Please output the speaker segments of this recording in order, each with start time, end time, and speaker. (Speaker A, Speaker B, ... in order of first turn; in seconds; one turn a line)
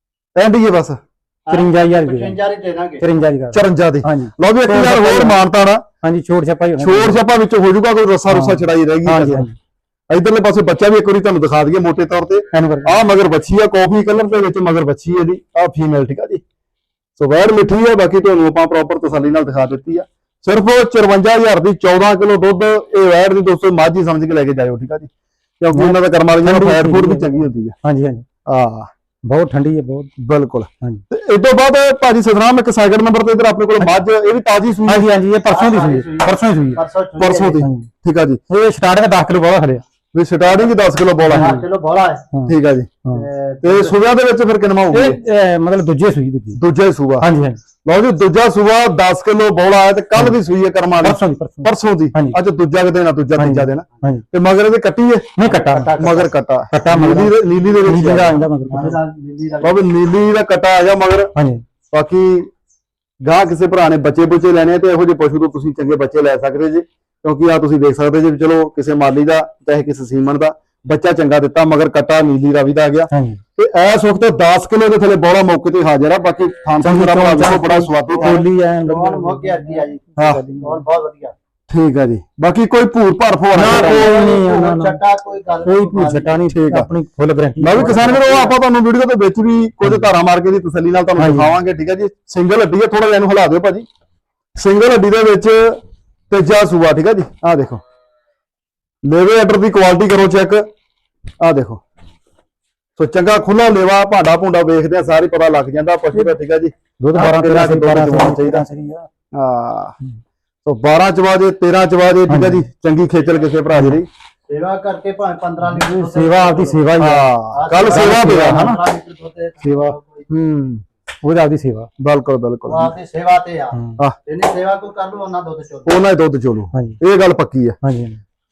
Speaker A: 0.3-1.0
Speaker B: 1.5-3.0
Speaker C: 1.5-2.4
Speaker C: 3.0-5.4
Speaker A: 3.5-5.8
Speaker C: 6.0-7.2
Speaker A: 6.8-9.5
Speaker C: 8.3-9.5
Speaker A: 10.1-16.4
Speaker C: 12.5-13.0
Speaker A: 17.2-27.8
Speaker C: 25.7-28.2
Speaker A: 28.5-28.9
Speaker C: 29.3-30.1
Speaker A: 30.2-35.1
Speaker C: 34.9-36.8
Speaker B: 35.5-37.7
Speaker A: 37.2-38.4
Speaker C: 37.6-37.9
Speaker C: 38.5-39.8
Speaker A: 40.1-41.5
Speaker C: 41.3-41.6
Speaker B: 41.3-42.2
Speaker A: 42.5-42.9
Speaker B: 43.1-44.0
Speaker A: 43.6-45.2
Speaker C: 44.9-46.6
Speaker A: 46.5-47.3
Speaker C: 47.2-47.6
Speaker A: 47.9-55.4
Speaker C: 51.0-52.4
Speaker C: 53.4-54.2
Speaker C: 55.4-56.0
Speaker B: 55.5-56.3
Speaker A: 56.0-58.4
Speaker C: 56.7-59.0
Speaker B: 58.7-59.9
Speaker A: 59.6-61.3
Speaker C: 61.4-61.6
Speaker A: 61.9-62.5
Speaker A: 63.2-78.5
Speaker C: 73.1-73.4
Speaker C: 76.8-80.8
Speaker B: 78.1-81.3
Speaker A: 81.7-84.1
Speaker C: 83.5-85.0
Speaker B: 83.6-86.5
Speaker C: 85.6-88.5
Speaker A: 86.5-86.9
Speaker A: 87.6-93.9
Speaker C: 89.8-90.1
Speaker C: 91.2-91.6
Speaker A: 94.6-95.8
Speaker A: 96.3-97.8
Speaker A: 99.0-100.7
Speaker A: 101.4-101.8
Speaker A: 103.0-108.7
Speaker C: 107.0-109.1
Speaker A: 109.3-110.0
Speaker A: 110.7-114.1
Speaker C: 112.3-112.7
Speaker C: 113.7-114.0
Speaker B: 114.5-116.8
Speaker C: 115.7-117.3
Speaker A: 117.0-118.8
Speaker B: 117.5-120.3
Speaker C: 117.8-118.8
Speaker C: 119.6-121.9
Speaker A: 122.0-122.9
Speaker B: 122.7-125.9
Speaker C: 123.7-124.0
Speaker A: 125.9-127.8
Speaker C: 127.8-128.2